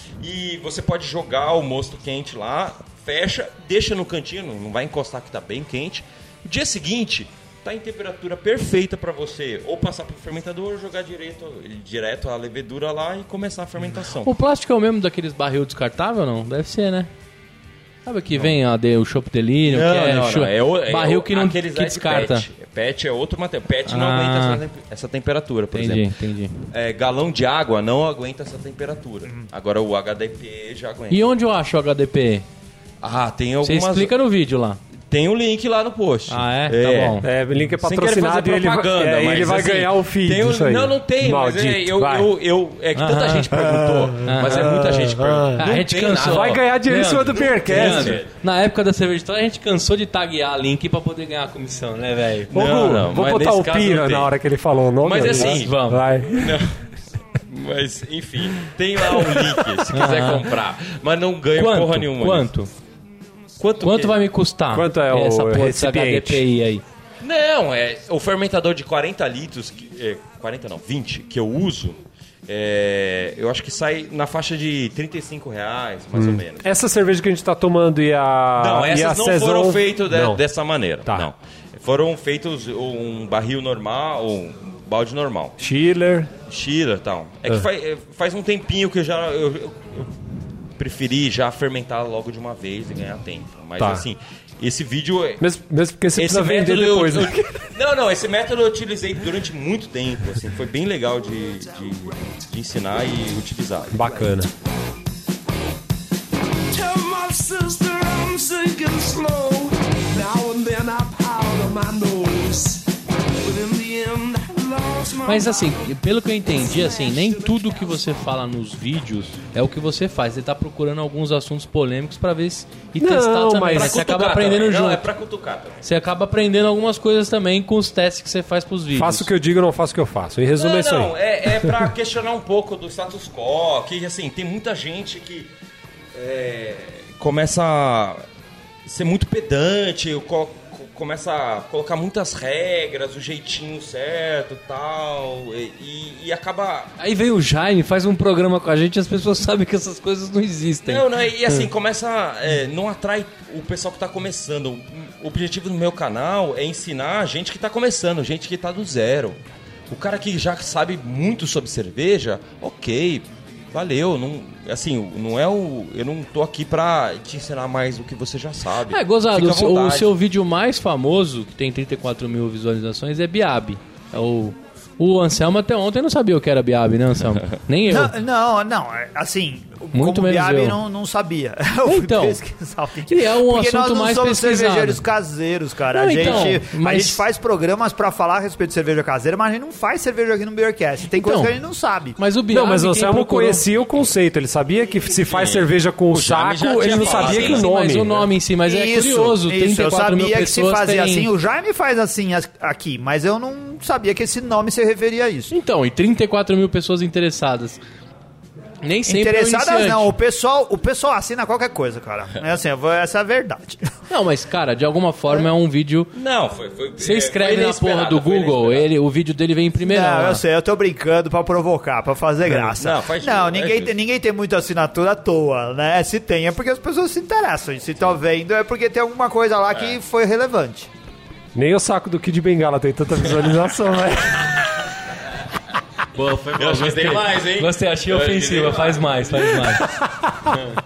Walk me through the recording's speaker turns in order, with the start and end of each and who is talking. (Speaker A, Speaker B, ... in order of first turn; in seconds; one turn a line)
Speaker A: 0.2-14.3
Speaker B: 14.2-17.1
Speaker B: 18.1-22.5
Speaker A: 19.7-26.1
Speaker B: 23.9-24.6
Speaker B: 25.7-26.6
Speaker A: 26.7-31.3
Speaker B: 31.1-32.5
Speaker A: 33.0-34.1
Speaker B: 33.6-34.8
Speaker A: 35.1-46.6
Speaker B: 36.3-37.3
Speaker C: 37.2-42.3
Speaker B: 42.9-43.6
Speaker C: 43.7-48.2
Speaker B: 44.2-44.7
Speaker B: 45.6-52.5
Speaker A: 47.3-48.3
Speaker A: 52.5-54.3
Speaker C: 52.5-56.6
Speaker A: 55.0-56.8
Speaker B: 55.2-56.0
Speaker A: 57.5-62.5
Speaker C: 59.2-59.5
Speaker B: 59.9-60.5
Speaker B: 61.5-62.7
Speaker A: 63.6-64.2
Speaker B: 63.8-66.8
Speaker C: 64.7-66.4
Speaker A: 67.2-76.7
Speaker C: 76.2-80.4
Speaker A: 78.6-85.6
Speaker C: 85.6-86.3
Speaker A: 86.5-90.1
Speaker A: 90.8-95.4
Speaker C: 93.8-94.0
Speaker C: 95.4-97.6
Speaker A: 96.2-104.0
Speaker D: 101.9-102.3
Speaker C: 103.9-104.5
Speaker D: 106.7-112.9
Speaker D: 113.4-115.8
Speaker B: 115.2-125.1
Speaker D: 116.7-118.0
Speaker C: 123.0-124.0
Speaker A: 123.7-125.8
Speaker B: 125.8-129.3
Speaker C: 128.9-131.7
Speaker A: 130.6-135.5
Speaker A: 136.1-138.2
Speaker A: 138.8-146.9
Speaker B: 147.0-151.0
Speaker A: 150.9-170.1
Speaker B: 168.9-178.2
Speaker E: 177.9-192.2
Speaker B: 179.9-180.8
Speaker B: 181.8-182.4
Speaker B: 183.1-185.0
Speaker B: 185.9-187.2
Speaker B: 191.2-191.6
Speaker B: 192.2-193.7
Speaker C: 192.5-198.2
Speaker A: 195.3-198.2
Speaker B: 196.8-201.3
Speaker E: 198.7-205.5
Speaker B: 205.5-207.8
Speaker B: 208.8-210.1
Speaker E: 209.1-213.9
Speaker B: 214.1-216.1
Speaker A: 216.1-218.9
Speaker B: 217.0-220.4
Speaker E: 219.8-230.9
Speaker A: 222.8-223.9
Speaker C: 231.6-234.6
Speaker B: 236.1-239.9
Speaker A: 236.5-239.5
Speaker C: 239.9-240.5